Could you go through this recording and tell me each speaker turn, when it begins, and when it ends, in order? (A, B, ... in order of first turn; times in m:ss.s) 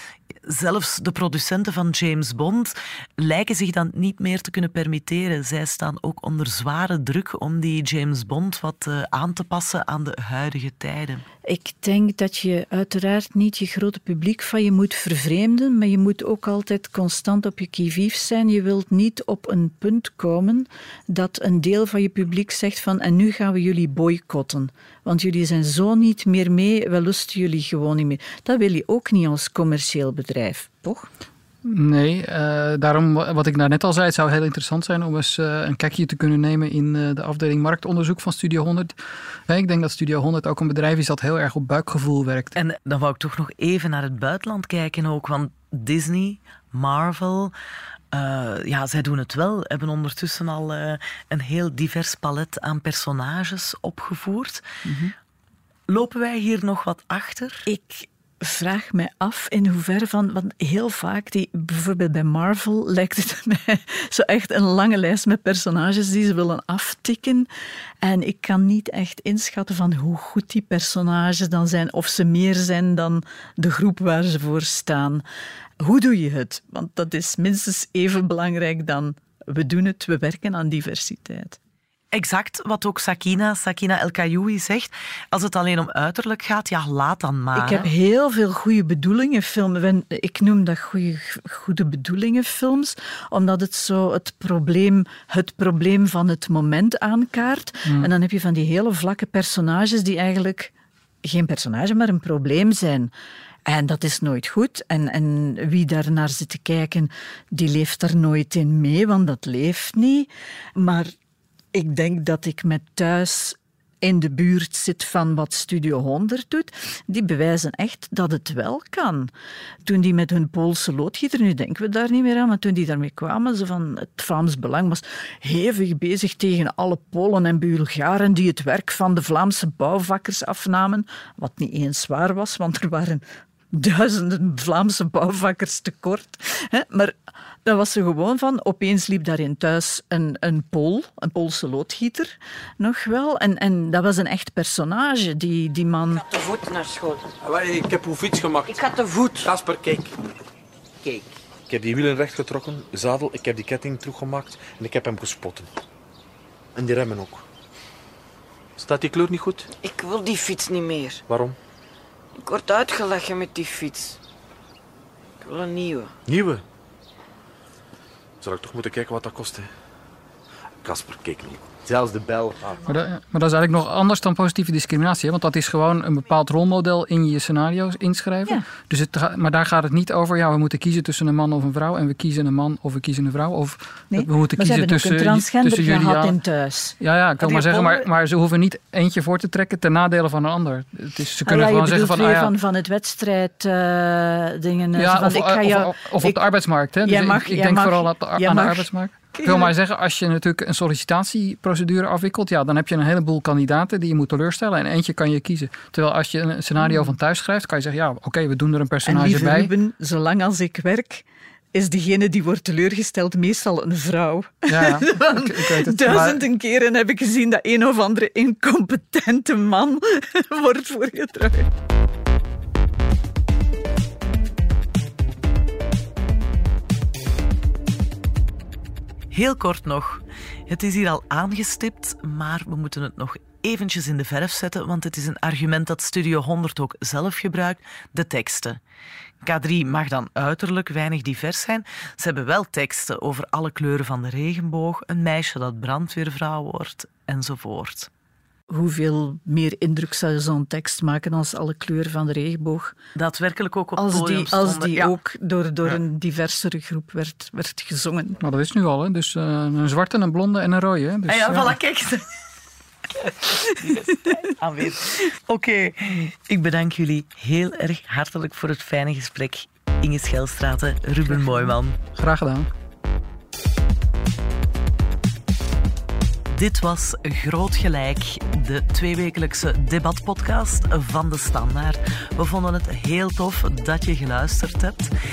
0:00.4-0:11.2 A
0:11.4-0:31.1 B
0:31.6-0:38.9 C
0:39.5-0:42.6 C
0:42.6-0:47.5 A
0:48.1-0:54.7 A
0:55.9-0:57.6 A
0:57.6-1:07.5 B
1:08.0-1:15.2 B
1:15.8-1:21.6 B
1:22.1-1:27.9 A
1:27.5-1:40.7 B
1:41.2-1:43.1 B
1:43.6-1:51.1 B
1:51.7-1:59.3 B
1:59.8-2:26.2 B
2:26.1-2:27.3 D
2:27.4-2:28.7 E
2:28.6-2:29.5 D
2:29.4-2:30.1 E
2:31.0-2:31.3 D
2:31.7-2:35.7 E
2:36.8-2:37.4 E
2:38.8-2:39.7 E
2:39.8-2:41.2 D
2:41.3-2:41.6 E
2:42.4-2:44.2 D
2:45.4-2:46.1 D
2:46.3-2:46.6 E
2:48.4-2:49.7 E
2:50.8-2:52.8 E
2:52.8-3:06.4 C
3:04.1-3:07.0 B
3:07.0-3:12.5 C
3:07.6-3:08.0 A
3:11.4-3:16.4 B
3:15.0-3:29.7 C
3:17.0-3:19.7 B
3:29.0-3:41.7 B
3:34.7-3:36.4 C
3:49.3-3:58.8 A
3:59.4-4:08.1 A
4:08.7-4:12.9 B
4:13.1-4:15.2 A
4:14.0-4:18.4 B
4:18.4-4:21.8 C
4:21.3-4:22.2 A
4:23.6-4:31.9 A
4:32.2-4:32.7 C
4:36.5-4:45.1 A